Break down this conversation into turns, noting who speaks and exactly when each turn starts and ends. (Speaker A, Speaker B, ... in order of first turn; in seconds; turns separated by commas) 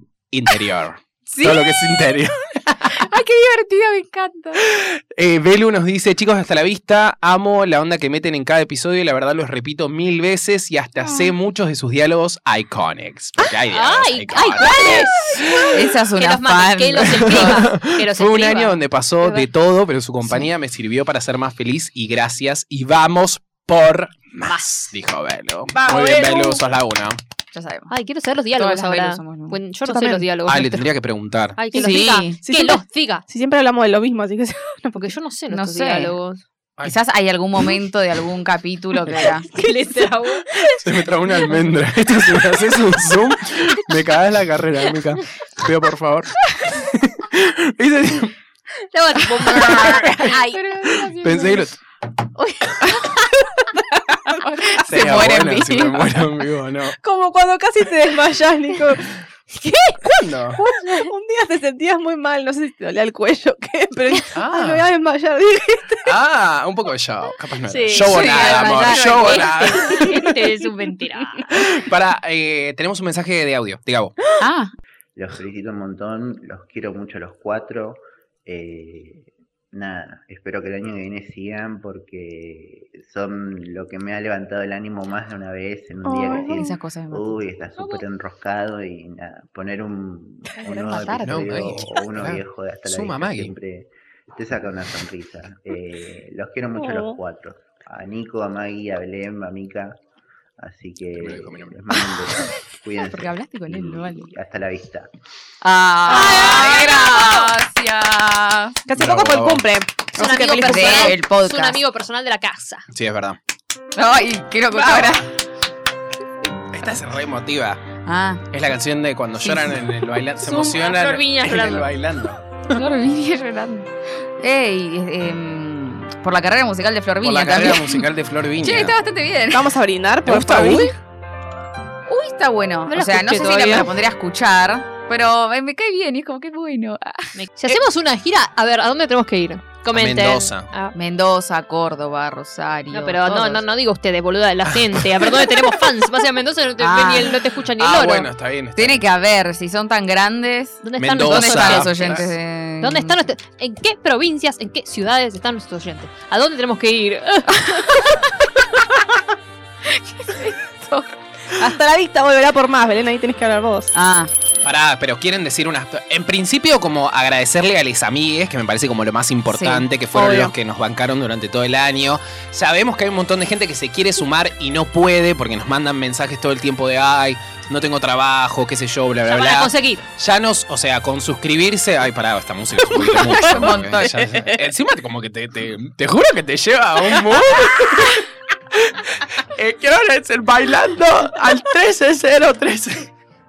Speaker A: 0.3-3.0, Speaker B: 1.3-2.0, Speaker B: 2.9-4.6, Speaker A: 4.6-15.9, Speaker B: 11.0-11.3, Speaker C: 13.7-19.4, Speaker B: 15.7-17.6, Speaker A: 17.0-27.2, Speaker D: 25.7-26.6, Speaker B: 27.5-27.9, Speaker C: 27.9-30.9, Speaker B: 28.6-29.6, Speaker D: 29.9-30.2, Speaker A: 30.4-31.6, Speaker C: 31.6-33.2, Speaker B: 31.7-32.4, Speaker D: 31.7-35.1, Speaker C: 35.0-36.4, Speaker B: 35.5-36.1, Speaker B: 36.8-39.5, Speaker C: 39.1-40.9, Speaker A: 40.8-48.3, Speaker C: 48.9-50.6, Speaker A: 49.3-50.4, Speaker B: 50.2-51.7, Speaker A: 50.9-51.8, Speaker A: 52.7-53.0, Speaker B: 52.8-53.2, Speaker B: 54.3-56.3, Speaker A: 54.8-56.9, Speaker D: 57.0-66.1, Speaker A: 60.0-60.6, Speaker C: 60.8-61.1, Speaker A: 64.3-64.9, Speaker A: 66.0-70.3, Speaker C: 67.7-71.5, Speaker B: 67.9-69.7, Speaker A: 71.5-74.1, Speaker B: 74.4-74.7, Speaker E: 75.1-100.0, Speaker D: 86.0-86.7, Speaker B: 86.5-88.0, Speaker D: 90.6-91.2, Speaker B: 90.7-91.8, Speaker A: 91.2-93.5, Speaker D: 96.8-97.2, Speaker E: 100.6-105.1, Speaker A: 101.2-101.7, Speaker B: 103.0-104.3, Speaker B: 105.6-108.8, Speaker C: 106.1-107.5, Speaker D: 106.1-107.1, Speaker D: 108.9-111.2, Speaker A: 108.9-109.7, Speaker C: 110.1-112.8, Speaker B: 110.5-111.8, Speaker A: 112.9-113.4, Speaker B: 114.0-115.3, Speaker A: 114.7-115.3, Speaker A: 116.6-117.8, Speaker B: 118.0-118.4, Speaker A: 118.5-122.8, Speaker B: 119.4-119.7, Speaker C: 120.4-121.9, Speaker B: 122.7-128.0, Speaker A: 127.2-128.9, Speaker B: 128.6-129.7, Speaker D: 129.5-130.9, Speaker A: 130.2-130.9, Speaker B: 132.1-137.8, Speaker C: 132.9-133.9, Speaker C: 137.3-140.9, Speaker A: 139.9-140.7, Speaker B: 140.9-143.6, Speaker C: 142.9-148.3, Speaker A: 144.7-145.4, Speaker B: 146.8-147.4, Speaker A: 147.8-149.0, Speaker B: 148.8-153.2, Speaker C: 150.8-158.1, Speaker A: 151.0-152.3, Speaker B: 157.5-158.3, Speaker B: 159.8-161.1, Speaker D: 161.6-163.9, Speaker B: 163.9-164.3, Speaker A: 164.6-193.1, Speaker B: 169.5-169.8, Speaker D: 170.1-170.5, Speaker C: 179.3-180.0, Speaker B: 182.9-184.3